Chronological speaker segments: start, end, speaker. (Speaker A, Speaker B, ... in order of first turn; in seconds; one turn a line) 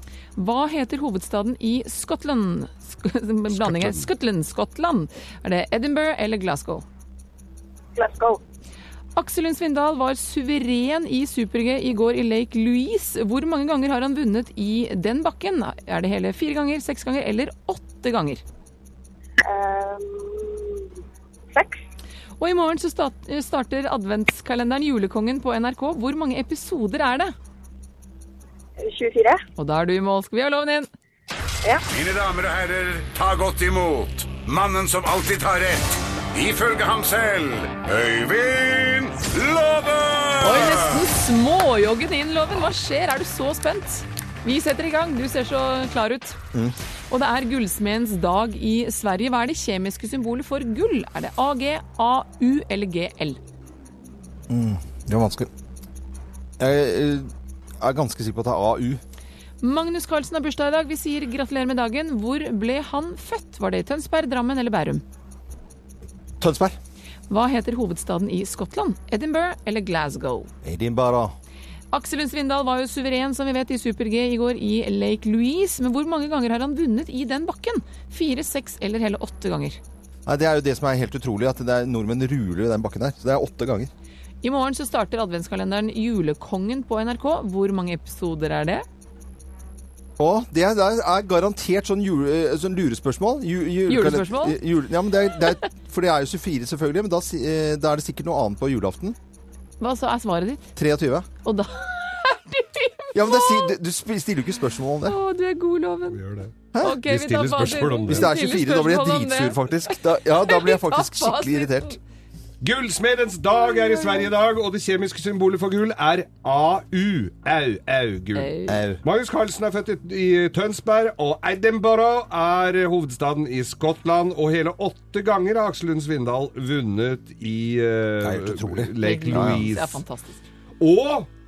Speaker A: 0.3-6.8
Speaker B: 3.6-4.0
Speaker C: 8.0-8.4
Speaker A: 9.2-18.4
Speaker C: 19.4-20.9
Speaker C: 21.5-21.8
Speaker A: 22.4-27.3
Speaker C: 28.8-29.4
Speaker A: 29.6-30.9
Speaker D: 31.9-41.0
Speaker A: 40.4-46.4
Speaker A: 47.1-53.4
Speaker E: 54.5-55.5
Speaker E: 56.6-57.3
Speaker E: 57.8-59.0
Speaker A: 59.6-65.0
Speaker E: 66.4-66.8
Speaker A: 67.3-70.5
Speaker E: 70.6-71.3
Speaker A: 71.9-79.8
Speaker E: 80.2-83.9
Speaker A: 84.4-88.8
Speaker E: 90.2-99.2
Speaker A: 93.9-94.6
Speaker A: 99.8-100.7
Speaker E: 100.8-101.3
Speaker A: 101.4-103.7
Speaker E: 103.1-105.2
Speaker A: 105.0-106.2
Speaker B: 106.1-108.2
Speaker E: 106.7-107.0
Speaker A: 106.8-111.9
Speaker E: 108.1-112.0
Speaker B: 112.6-118.5
Speaker A: 118.3-118.8
Speaker E: 118.7-119.0
Speaker B: 119.0-130.0
Speaker E: 128.2-129.7
Speaker A: 129.0-130.4
Speaker B: 130.8-131.3